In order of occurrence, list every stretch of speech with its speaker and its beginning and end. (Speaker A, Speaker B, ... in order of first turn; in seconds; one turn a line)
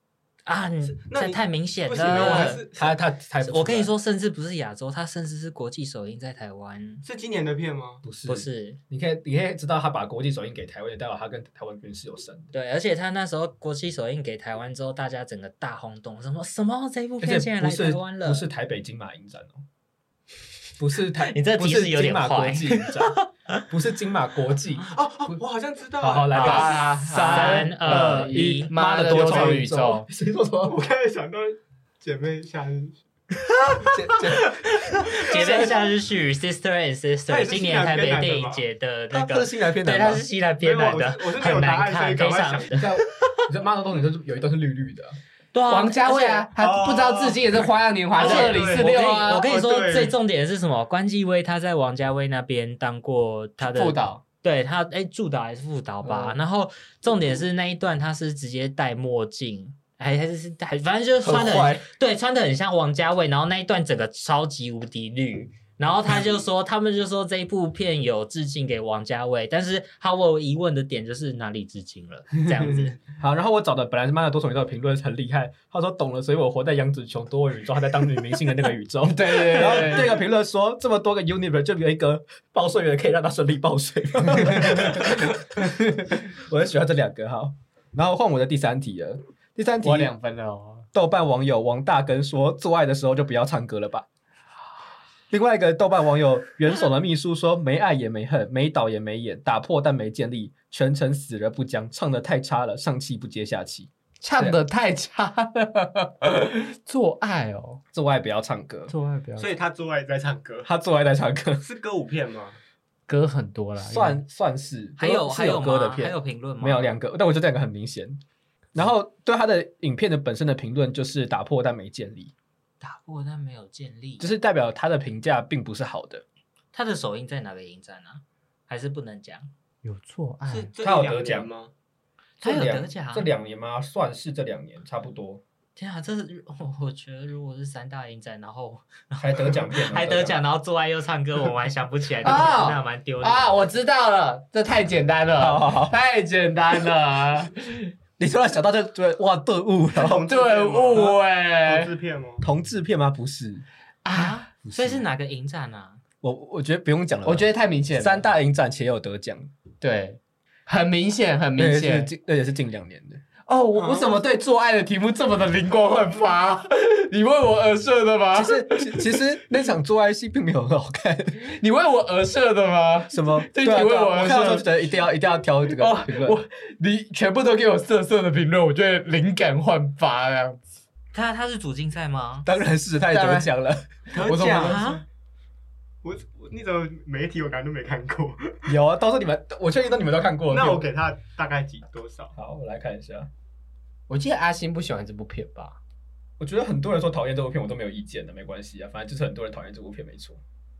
Speaker A: 0.5-2.7
Speaker B: 0.8-3.0
Speaker C: 2.1-3.9
Speaker A: 3.4-7.0
Speaker B: 7.0-8.0
Speaker C: 8.0-12.5
Speaker A: 8.2-8.8
Speaker A: 12.5-18.4
Speaker C: 17.2-19.6
Speaker C: 20.8-25.4
Speaker A: 21.2-23.6
Speaker B: 24.8-26.6
Speaker C: 26.0-30.8
Speaker D: 26.3-30.1
Speaker A: 26.4-28.7
Speaker B: 29.0-29.6
Speaker B: 30.6-33.0
Speaker A: 33.6-43.4
Speaker C: 33.8-35.8
Speaker B: 35.3-35.8
Speaker B: 37.3-38.6
Speaker C: 39.1-40.2
Speaker B: 40.6-42.9
Speaker C: 42.8-45.2
Speaker A: 45.5-46.5
Speaker D: 45.7-49.5
Speaker B: 46.5-50.1
Speaker A: 48.2-73.0
Speaker D: 53.6-54.2
Speaker D: 56.0-56.4
Speaker C: 61.2-61.9
Speaker C: 73.2-90.1
Speaker D: 79.0-80.2
Speaker D: 84.7-85.0
Speaker D: 89.8-90.9
Speaker C: 90.9-94.0
Speaker C: 95.3-104.5
Speaker D: 104.2-107.8
Speaker C: 107.9-108.9
Speaker D: 108.9-109.5
Speaker B: 109.4-110.7
Speaker C: 110.6-111.6
Speaker B: 111.6-112.6
Speaker D: 113.1-114.2
Speaker C: 113.8-118.2
Speaker A: 115.0-116.9
Speaker C: 118.7-122.3
Speaker A: 122.8-124.3
Speaker C: 124.2-126.2
Speaker A: 126.7-129.5
Speaker D: 129.8-130.7
Speaker B: 130.5-131.7
Speaker C: 130.8-131.5
Speaker A: 132.4-133.3
Speaker C: 132.4-135.4
Speaker A: 135.8-143.5
Speaker C: 139.2-140.4
Speaker D: 142.2-147.9
Speaker C: 145.4-145.9
Speaker C: 148.2-150.2
Speaker B: 149.9-152.5
Speaker D: 150.2-151.9
Speaker C: 152.4-153.6
Speaker D: 154.0-154.5
Speaker A: 154.1-156.0
Speaker C: 154.6-155.0
Speaker C: 156.2-159.5
Speaker D: 157.2-158.3
Speaker D: 159.8-162.1
Speaker C: 161.6-163.2
Speaker D: 163.4-169.2
Speaker B: 163.7-164.2
Speaker C: 168.3-171.5
Speaker D: 171.4-174.7
Speaker C: 173.1-176.4
Speaker D: 175.7-180.6
Speaker A: 181.1-182.5
Speaker C: 182.4-184.5
Speaker D: 183.0-183.5
Speaker B: 184.1-185.0
Speaker D: 184.1-184.9
Speaker A: 184.6-185.0
Speaker B: 186.0-188.8
Speaker C: 188.7-190.9
Speaker B: 190.5-192.3
Speaker C: 192.3-193.3
Speaker D: 194.1-195.8
Speaker C: 196.4-200.4